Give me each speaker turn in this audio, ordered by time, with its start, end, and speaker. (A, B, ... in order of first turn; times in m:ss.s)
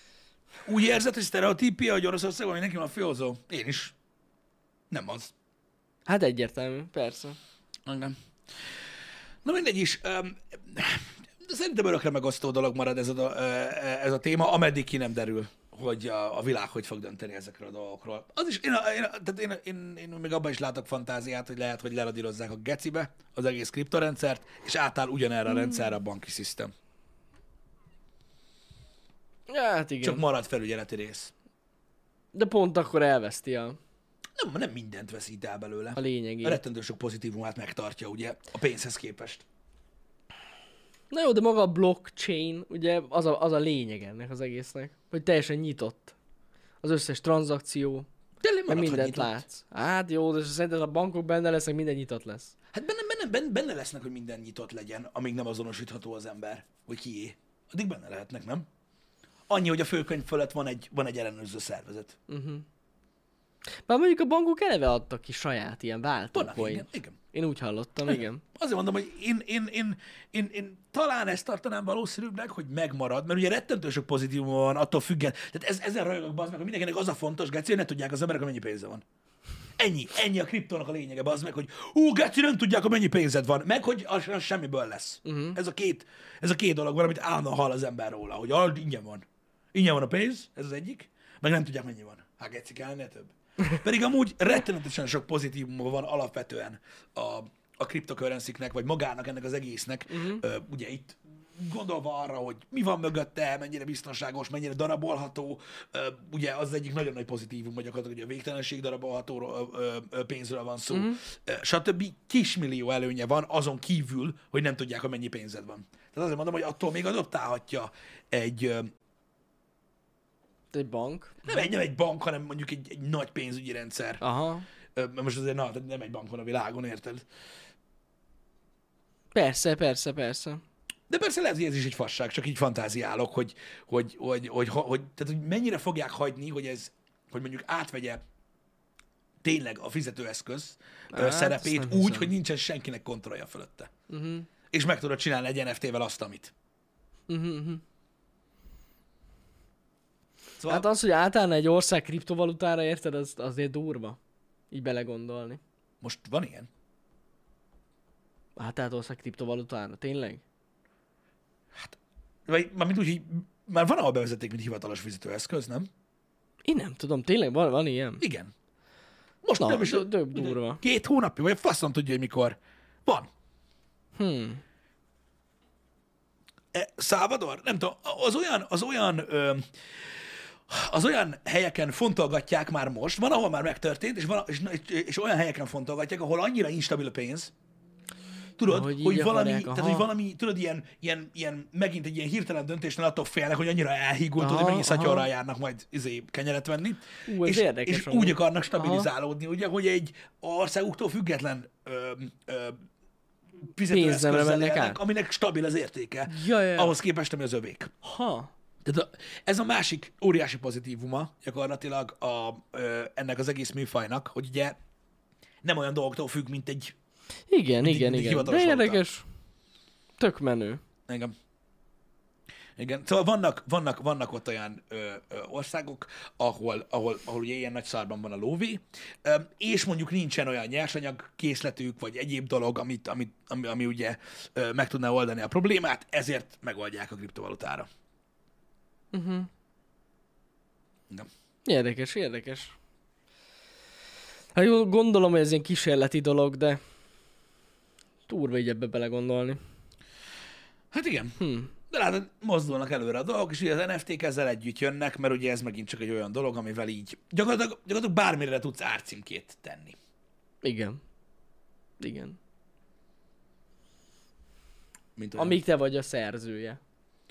0:00.6-0:03.9 A
0:04.9-0:05.3 A
0:06.1-0:07.4 B
0:07.9-0:08.2 A
0:09.4-0:26.7 A
0:29.5-0:30.2 B
0:30.0-0:31.3 A
0:32.3-0:33.8 B
0:34.4-0:39.4 A
0:36.0-0:36.6 B
0:41.1-0:46.1 B
0:46.8-0:48.1 B
0:48.4-0:49.4 A
0:48.7-0:52.6 B
0:52.7-0:58.7 A
0:59.5-1:02.2 A
1:02.3-1:02.6 B
1:03.9-1:08.4 B
1:06.3-1:07.2 A
1:08.1-1:19.0 A
1:19.8-1:58.9 A
1:25.2-1:25.6 B
1:40.1-1:40.4 B
1:50.9-1:51.2 B
2:00.7-2:01.7 B
2:01.4-2:04.2 A
2:04.2-2:04.7 B
2:05.0-2:07.2 A
2:09.3-2:10.6 B
2:11.1-2:18.2 A
2:19.4-2:23.9 A
2:21.1-2:22.3 B
2:24.1-2:24.5 B
2:24.7-2:26.5 A
2:27.3-2:27.8 B
2:30.6-2:30.9 A
2:30.7-2:34.2 B
2:34.7-2:35.6 B
2:36.0-2:36.7 A
2:38.6-2:40.4 B
2:42.5-2:45.9 A
2:46.7-2:48.2 B
2:48.2-2:48.5 A
2:49.4-2:53.3 A
2:49.6-2:50.8 B
2:54.2-2:54.6 B
2:56.7-3:07.5 A
3:08.6-3:22.8 A
3:08.7-3:10.1 B
3:14.4-3:15.3 B
3:17.3-3:19.1 B
3:23.7-3:27.9 A
3:23.9-3:25.0 B
3:26.3-3:27.0 B
3:28.0-3:28.5 B
3:28.8-3:34.8 A
3:35.6-3:37.0 A
3:37.5-3:39.2 B
3:37.8-3:39.0 A
3:40.2-3:40.8 B
3:41.1-3:41.3 A
3:42.8-3:57.9 A
3:59.1-3:59.5 B
4:01.7-4:02.8 B
4:04.6-4:06.8 B
4:08.3-4:09.6 B
4:10.9-4:11.4 A
4:11.4-4:11.7 B
4:11.9-4:20.0 A
4:20.6-4:21.0 B
4:22.0-4:22.4 B
4:25.2-4:25.6 A
4:25.4-4:26.8 B